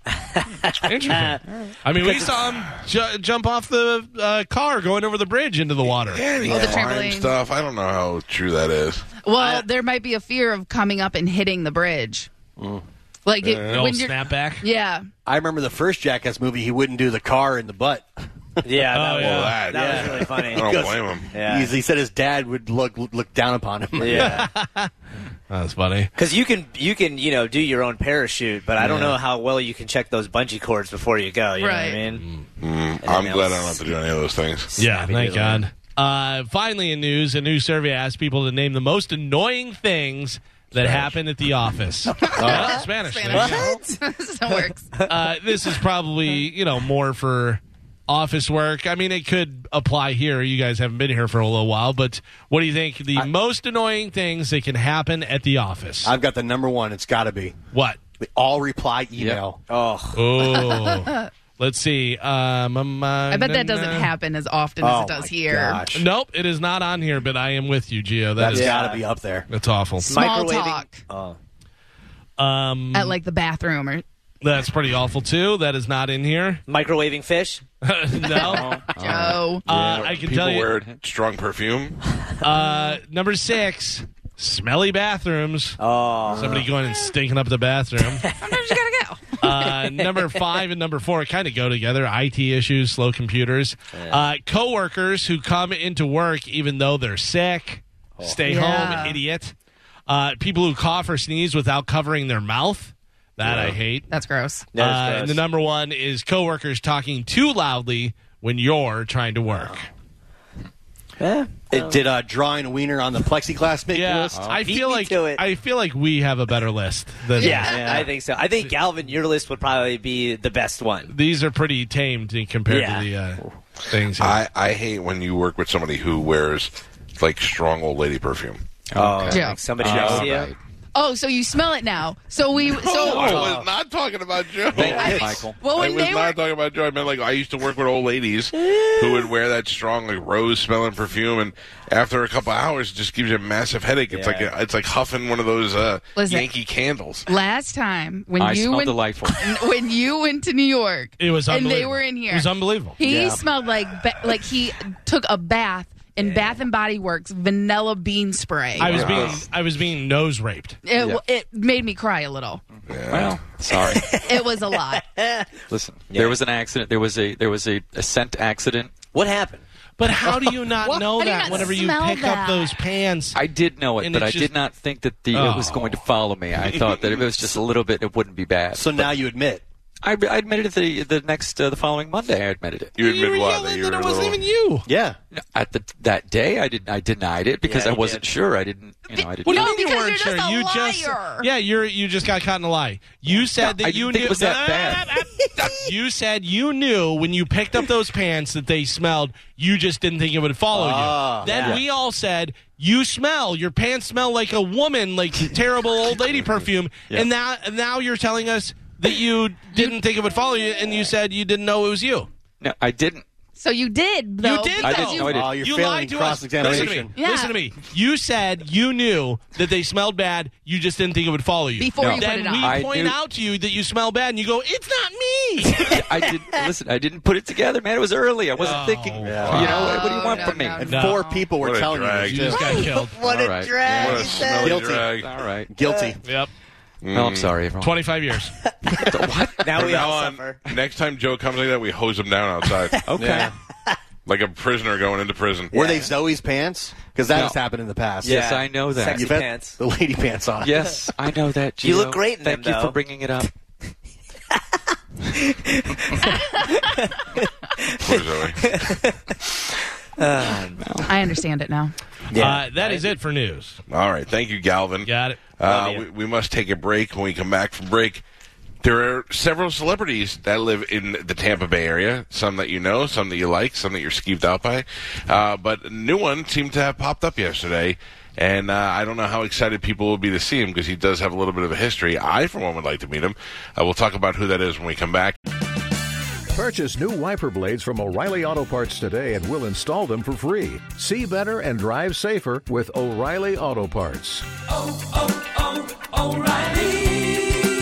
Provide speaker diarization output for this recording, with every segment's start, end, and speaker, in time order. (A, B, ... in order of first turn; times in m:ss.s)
0:00.4-0:01.4 A
0:00.8-0:06.3 B
0:02.0-0:02.4 A
0:05.9-0:09.1 C
0:06.4-0:07.4 D
0:06.5-0:06.8 A
0:09.2-0:12.3 D
0:09.4-0:09.6 A
0:12.6-0:12.8 E
0:13.3-0:15.1 D
0:13.4-0:13.8 C
0:13.5-0:14.6 B
0:15.3-0:18.1 E
0:18.6-0:21.7 A
0:18.9-0:20.3 B
0:19.2-0:21.3 C
0:21.4-0:24.4 E
0:24.0-0:24.5 A
0:24.1-0:24.9 B
0:25.5-0:26.1 B
0:26.2-0:32.2 A
0:28.8-0:29.2 E
0:31.6-0:32.0 D
0:32.6-0:34.7 C
0:33.0-0:33.8 A
0:34.7-0:35.7 A
0:34.8-0:43.8 B
0:42.2-0:42.8 A
0:42.3-0:42.8 E
0:42.3-0:44.9 D
0:43.3-0:43.8 A
0:45.1-0:56.1 B
0:56.0-0:57.6 E
0:57.7-0:58.0 B
0:58.2-0:59.6 E
0:59.2-0:59.4 F
0:59.7-1:00.3 A
1:00.2-1:04.1 B
1:00.7-1:01.2 D
1:03.3-1:05.8 D
1:04.8-1:06.1 E
1:05.9-1:08.8 B
1:08.4-1:09.5 E
1:08.5-1:09.1 A
1:09.5-1:10.2 B
1:10.0-1:11.0 D
1:10.1-1:11.4 A
1:12.4-1:13.2 B
1:12.9-1:14.0 D
1:14.4-1:16.6 B
1:16.7-1:17.6 A
1:17.8-1:18.8 B
1:18.4-1:19.4 F
1:19.0-1:19.6 D
1:19.6-1:20.7 B
1:19.7-1:22.0 C
1:22.4-1:25.8 B
1:25.8-1:26.7 A
1:26.3-1:28.3 B
1:28.1-1:28.7 A
1:28.4-1:29.4 D
1:29.4-1:39.5 B
1:29.5-1:30.5 A
1:34.0-1:34.3 A
1:38.2-1:38.9 A
1:38.5-1:39.2 D
1:40.1-1:44.1 B
1:43.4-1:43.8 C
1:44.1-1:44.7 D
1:44.7-1:45.4 A
1:44.8-1:49.9 B
1:51.2-1:52.0 A
1:51.7-1:54.5 E
1:53.9-1:58.0 B
1:54.3-1:54.6 F
1:54.6-1:55.4 A
1:57.4-1:58.1 D
1:57.4-2:01.1 A
2:01.1-2:04.4 B
2:02.7-2:03.1 A
2:04.2-2:08.6 C
2:08.9-2:10.6 F
2:09.0-2:10.5 A
2:09.3-2:09.6 D
2:09.8-2:10.5 C
2:11.0-2:13.5 D
2:12.7-2:27.3 C
2:12.7-2:13.7 A
2:14.7-2:15.6 F
2:14.8-2:16.4 D
2:14.8-2:15.4 A
2:18.7-2:19.2 A
2:24.1-2:24.5 A
2:26.2-2:26.5 D
2:27.3-2:38.9 D
2:28.4-2:29.6 F
2:31.2-2:33.0 B
2:33.0-2:33.4 E
2:36.2-2:36.5 A
2:38.8-2:40.8 B
2:38.8-2:39.4 F
2:38.9-2:39.4 C
2:40.8-2:42.6 D
2:42.9-2:43.4 C
2:43.1-2:44.1 F
2:43.7-2:45.5 A
2:44.2-2:45.0 D
2:45.7-2:48.9 F
2:46.1-2:46.4 A
2:49.1-2:49.6 A
2:50.0-2:53.4 B
2:51.2-2:52.8 D
2:53.3-2:59.1 F
2:54.0-2:54.5 B
2:55.3-2:56.0 B
2:56.6-2:57.2 C
2:58.7-2:59.6 E
3:00.0-3:03.0 F
3:03.0-3:04.4 C
3:03.0-3:04.9 B
3:04.9-3:05.2 E
3:05.3-3:09.7 F
3:07.6-3:08.3 A
3:09.1-3:11.5 D
3:09.4-3:32.3 B
3:13.6-3:15.5 F
3:15.4-3:15.8 A
3:20.7-3:21.8 E
3:21.4-3:21.8 A
3:32.6-3:33.2 F
3:33.6-3:35.3 D
3:34.4-3:46.0 B
3:34.8-3:35.6 F
3:35.2-3:37.2 E
3:36.6-3:36.9 F
3:37.2-3:37.6 D
3:41.8-3:42.8 D
3:42.0-3:43.2 F
3:45.7-3:46.7 A
3:45.8-3:51.1 F
3:48.6-3:49.6 B
3:49.2-3:50.1 E
3:49.4-3:50.0 C
3:49.5-3:51.5 D
3:50.2-3:50.6 A
3:50.7-3:56.2 E
3:50.8-3:51.3 B
3:51.6-3:52.6 C
3:52.2-3:53.2 B
3:52.6-3:54.8 A
3:53.2-3:53.8 F
3:53.9-3:55.3 C
3:55.2-3:55.7 F
3:55.8-3:56.2 A
3:56.2-3:56.5 B
3:57.0-3:57.6 C
3:57.1-3:58.0 F
3:57.8-3:58.6 B
3:59.0-4:00.0 F
3:59.0-4:00.6 A
3:59.7-4:03.1 C
4:03.1-4:03.5 F
4:03.2-4:03.5 E
4:04.3-4:05.8 C
4:05.7-4:08.4 E
4:05.7-4:06.1 A
4:07.3-4:07.6 F
4:08.2-4:09.3 F
4:08.2-4:09.8 A
4:09.1-4:11.0 E
4:10.6-4:13.5 F
4:11.8-4:13.0 A
4:15.3-4:19.4 A
4:18.0-4:18.8 C
4:20.2-4:21.1 A
4:20.8-4:21.1 F
4:21.1-4:21.9 D
4:22.3-4:22.6 E
4:22.3-4:23.1 A
4:22.4-4:23.8 B
4:23.9-4:28.2 C
4:25.0-4:25.4 B
4:25.6-4:26.0 A
4:28.8-4:45.4 C
4:46.5-4:54.5 G
4:56.2-4:57.0 G